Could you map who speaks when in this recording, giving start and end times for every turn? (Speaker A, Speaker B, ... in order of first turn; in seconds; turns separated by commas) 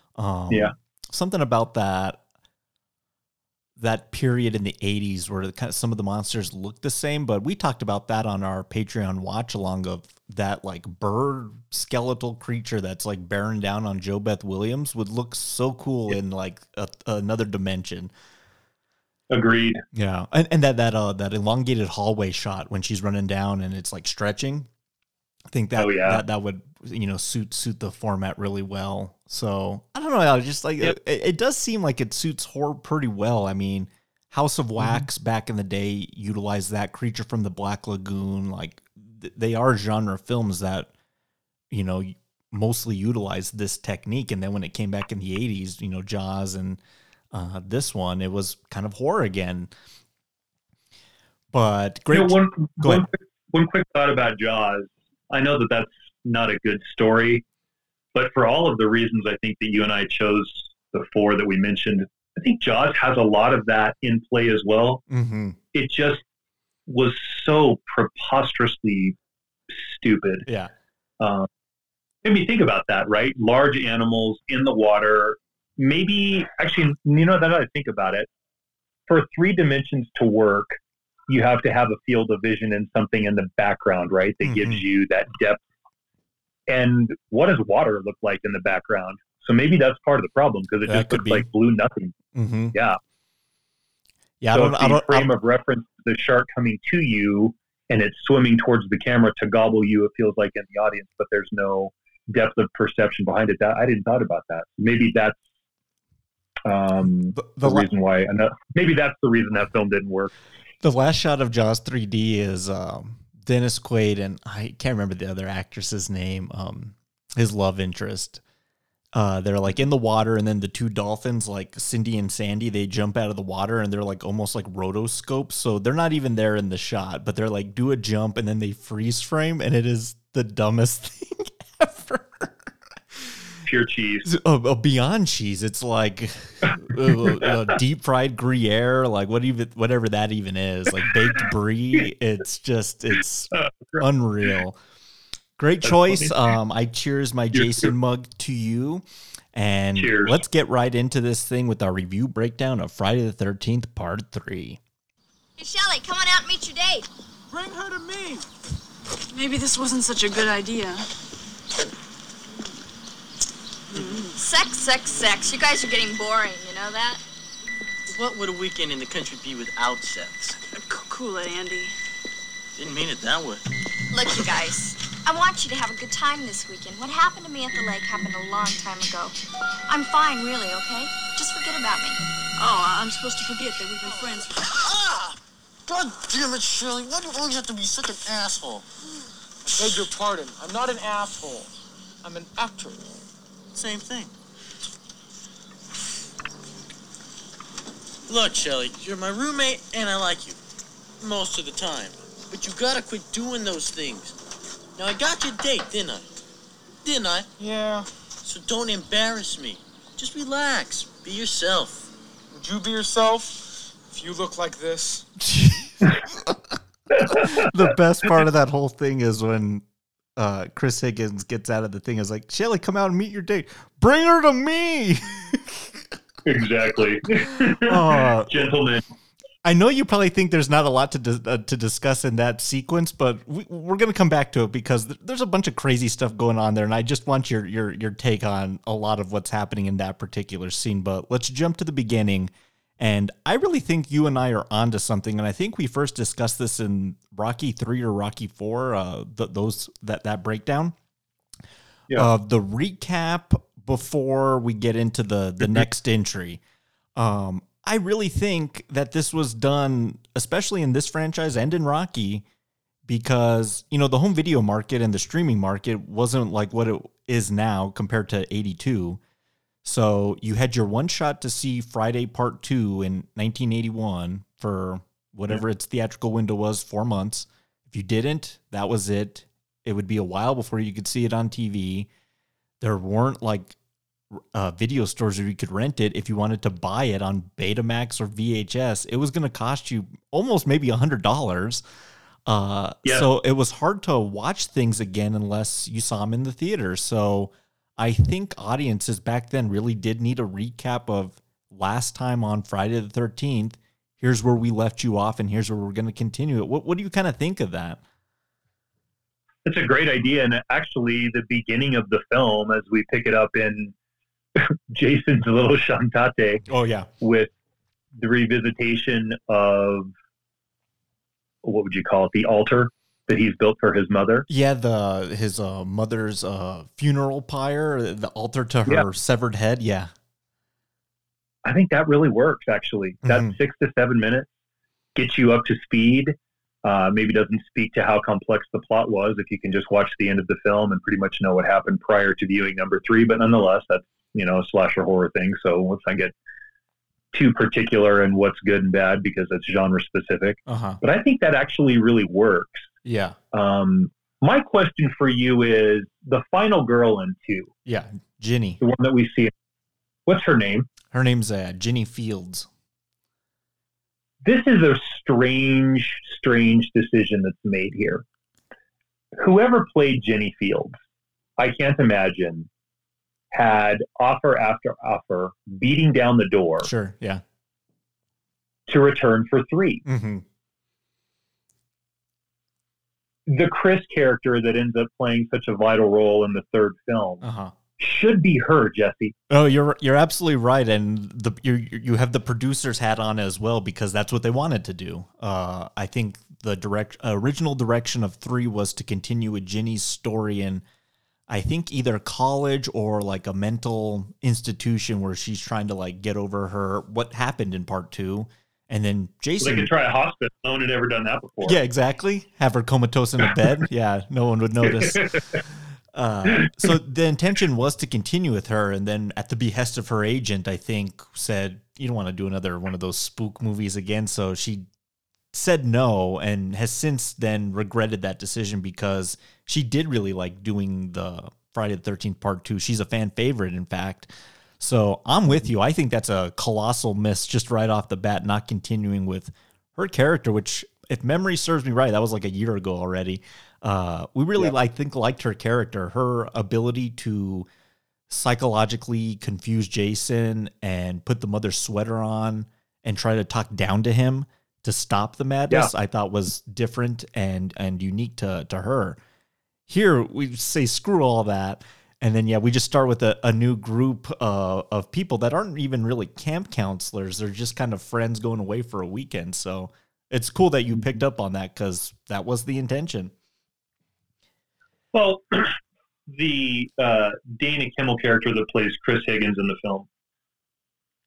Speaker A: 0.1-2.2, Speaker A: 3.8-18.1, Speaker B: 19.3-19.8, Speaker A: 19.9-24.7, Speaker A: 25.5-40.9, Speaker B: 25.8-26.2, Speaker A: 41.7-46.8, Speaker A: 47.3-49.7, Speaker A: 51.5-53.1, Speaker B: 52.1-57.4, Speaker B: 58.1-65.0, Speaker A: 65.1-65.6, Speaker B: 65.7-66.2, Speaker B: 66.9-69.2, Speaker B: 69.7-70.5, Speaker A: 70.5-70.7, Speaker B: 71.2-71.5, Speaker B: 72.2-78.3, Speaker B: 79.1-80.8, Speaker B: 81.3-85.6, Speaker A: 84.4-84.8, Speaker B: 86.7-92.1, Speaker A: 90.9-91.5, Speaker A: 92.3-92.7, Speaker B: 92.7-93.0, Speaker A: 94.4-95.3, Speaker B: 94.5-105.4, Speaker B: 106.7-110.3, Speaker A: 107.0-107.9, Speaker A: 110.8-118.4, Speaker A: 119.1-133.4, Speaker B: 133.6-134.3, Speaker A: 134.2-144.8, Speaker B: 136.9-137.6, Speaker B: 143.5-144.0, Speaker A: 145.6-154.8, Speaker B: 145.8-146.3, Speaker B: 147.5-147.9, Speaker B: 149.9-150.4, Speaker C: 155.6-157.1, Speaker D: 157.5-158.4, Speaker E: 159.3-161.1, Speaker E: 163.9-164.3, Speaker C: 164.3-167.2, Speaker D: 168.1-170.7, Speaker E: 170.8-171.9, Speaker D: 172.8-173.6, Speaker C: 174.1-179.3, Speaker C: 179.9-182.2, Speaker E: 182.6-184.6, Speaker D: 184.8-185.1, Speaker D: 185.9-188.8, Speaker F: 189.7-191.7, Speaker F: 192.2-193.0, Speaker D: 193.7-194.3, Speaker D: 198.3-200.6, Speaker D: 201.2-204.3, Speaker D: 204.9-206.3, Speaker D: 207.0-207.5, Speaker F: 207.6-208.1, Speaker D: 208.4-212.1, Speaker F: 212.5-215.3, Speaker A: 215.4-216.6, Speaker B: 217.1-217.7, Speaker A: 217.2-219.8, Speaker A: 220.3-226.1, Speaker B: 226.4-229.0, Speaker A: 227.6-228.6, Speaker A: 229.6-250.9, Speaker A: 252.1-256.6, Speaker B: 255.6-255.9, Speaker A: 257.1-262.4, Speaker A: 263.1-269.2, Speaker A: 269.8-282.1, Speaker A: 282.8-283.8, Speaker A: 284.3-291.8, Speaker A: 292.4-308.0, Speaker B: 309.6-313.9, Speaker B: 314.6-316.6, Speaker A: 316.7-317.1, Speaker B: 317.2-317.5, Speaker B: 318.2-320.1, Speaker B: 321.6-324.4, Speaker A: 324.5-330.1, Speaker B: 331.6-334.5, Speaker A: 333.2-333.5, Speaker B: 335.1-346.3, Speaker B: 347.3-352.9, Speaker A: 350.7-351.0, Speaker A: 353.0-353.4, Speaker B: 353.5-357.7, Speaker A: 357.9-358.8, Speaker B: 358.8-359.5, Speaker B: 360.3-360.9, Speaker A: 361.1-362.7, Speaker B: 364.4-368.2, Speaker B: 369.4-371.0, Speaker B: 371.6-372.7, Speaker B: 373.5-376.9, Speaker A: 376.8-377.4, Speaker B: 378.9-380.0, Speaker A: 380.1-380.4, Speaker B: 383.5-387.4, Speaker A: 387.4-387.7, Speaker B: 388.0-389.3, Speaker A: 389.5-400.8, Speaker A: 401.5-409.9, Speaker B: 409.6-411.8, Speaker A: 411.6-415.6, Speaker B: 414.8-415.4, Speaker A: 416.1-424.9, Speaker B: 416.5-416.9, Speaker A: 425.5-447.7, Speaker A: 448.3-459.2, Speaker A: 459.9-473.3, Speaker B: 475.1-480.1